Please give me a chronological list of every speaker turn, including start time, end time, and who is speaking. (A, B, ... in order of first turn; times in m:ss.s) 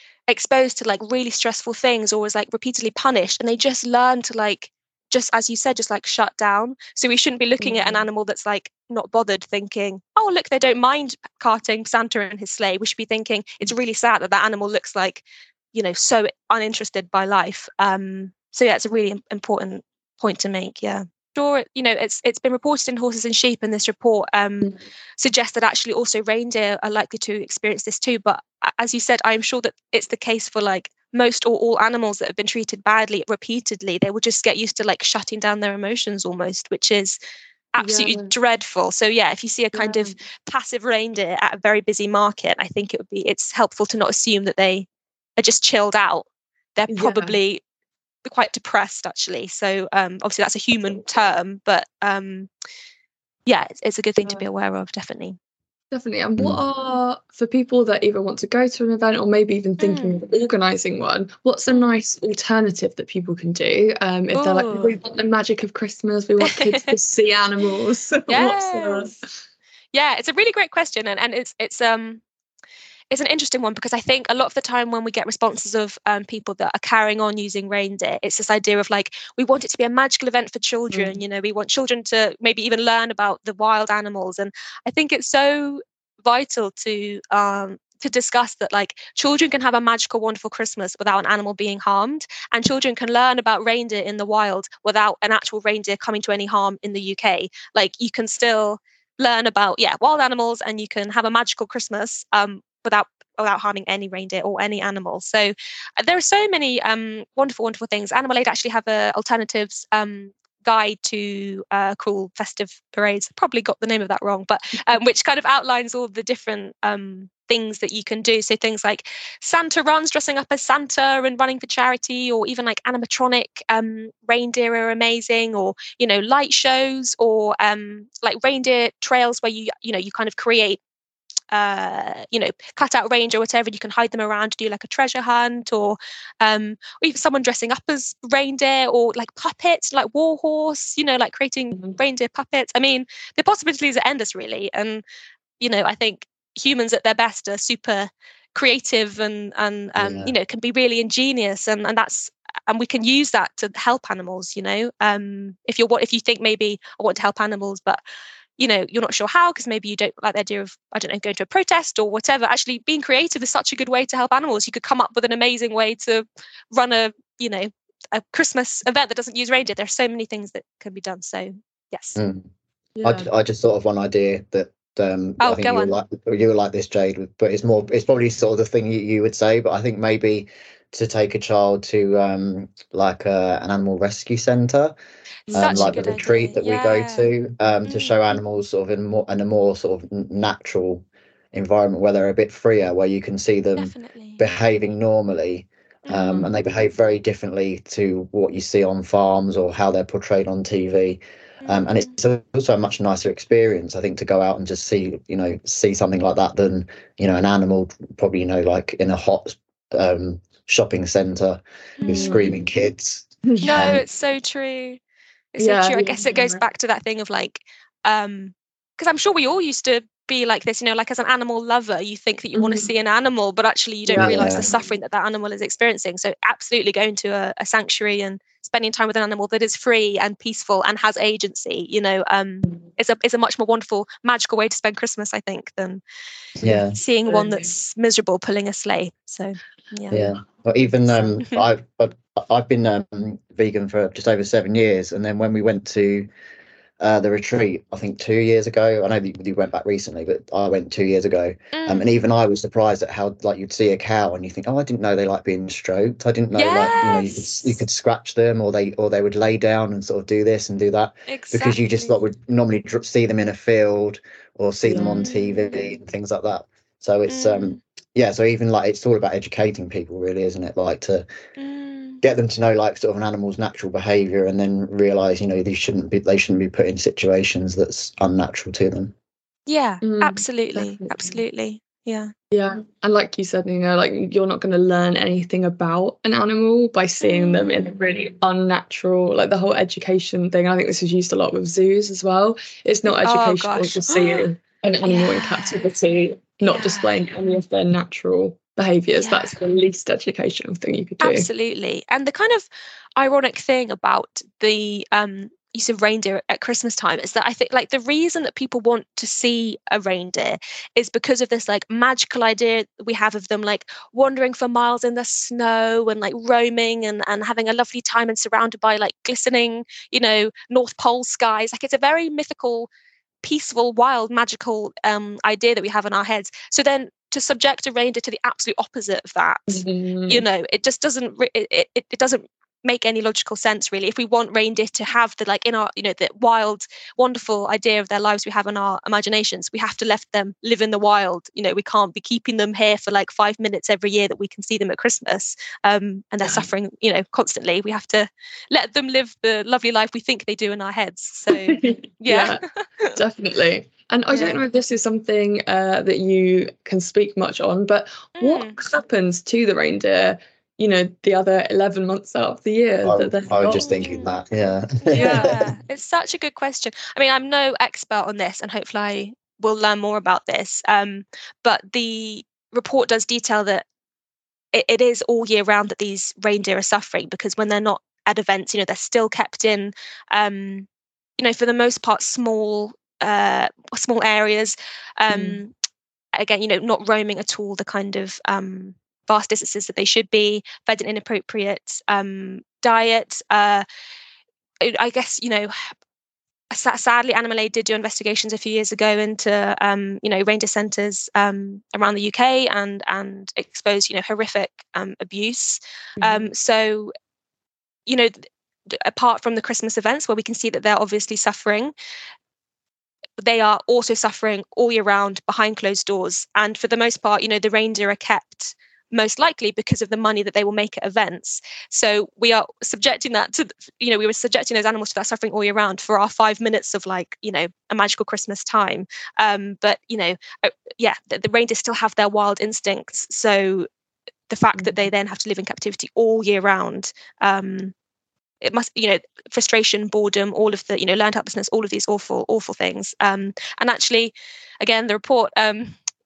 0:00.3-0:37.2 A
0:07.6-0:08.1 B
0:37.7-0:47.6 A
0:37.8-0:38.3 B
0:39.7-0:40.2 B
0:46.9-0:47.4 B
0:48.2-0:52.5 A
0:53.5-0:55.4 A
0:55.9-1:09.3 B
0:59.8-1:00.2 A
1:04.4-1:05.0 A
1:06.4-1:07.0 A
1:08.3-1:09.1 A
1:09.9-1:12.2 A
1:13.1-2:10.8 A
1:20.9-1:21.2 B
2:11.5-2:25.0 A
2:25.6-2:38.0 A
2:30.0-2:30.3 C
2:38.6-2:52.2 A
2:52.2-2:52.5 C
2:53.0-2:53.3 B
2:53.0-3:05.0 C
2:55.4-2:56.0 A
3:05.5-3:06.2 B
3:05.5-3:07.3 A
3:05.5-3:34.0 C
3:07.9-3:08.1 A
3:13.8-3:14.4 A
3:16.1-3:16.5 A
3:21.6-3:22.1 A
3:32.0-3:32.4 A
3:32.1-3:32.6 B
3:33.5-3:34.0 B
3:33.6-3:35.0 A
3:35.5-3:56.0 A
3:35.6-3:36.6 B
3:42.6-3:42.9 B
3:44.1-3:44.8 B
3:44.1-3:44.6 C
3:56.6-3:57.0 C
3:57.0-4:00.2 A
3:57.3-3:57.6 B
4:00.1-4:06.3 C
4:07.0-4:31.3 C
4:11.7-4:12.1 A
4:16.6-4:17.7 A
4:21.3-4:22.1 A
4:24.8-4:25.3 B
4:25.1-4:25.7 A
4:27.3-4:27.8 A
4:31.6-4:32.2 A
4:32.2-4:39.1 C
4:39.7-4:42.3 A
4:40.0-4:41.2 B
4:42.5-5:01.5 B
4:47.2-4:47.9 A
4:53.1-4:54.5 A
4:55.0-4:55.9 A
4:56.6-4:57.1 A
4:59.2-4:59.6 A
5:01.2-5:22.9 A
5:23.4-5:53.2 A
5:29.7-5:30.4 B
5:51.5-5:52.6 B
5:53.2-6:03.9 B
5:54.3-5:54.6 A
5:58.4-5:58.8 A
6:03.0-6:05.7 C
6:03.7-6:04.3 A
6:05.0-6:13.8 A
6:05.1-6:05.6 B
6:14.7-6:20.9 A
6:21.4-6:25.7 A
6:25.3-6:25.6 B
6:26.4-6:33.9 A
6:34.8-6:35.7 A
6:36.7-6:47.1 A
6:46.2-6:46.5 B
6:48.1-6:48.3 A
6:48.9-6:51.9 A
6:53.4-7:13.9 A
7:14.5-7:17.9 A
7:18.6-7:26.0 A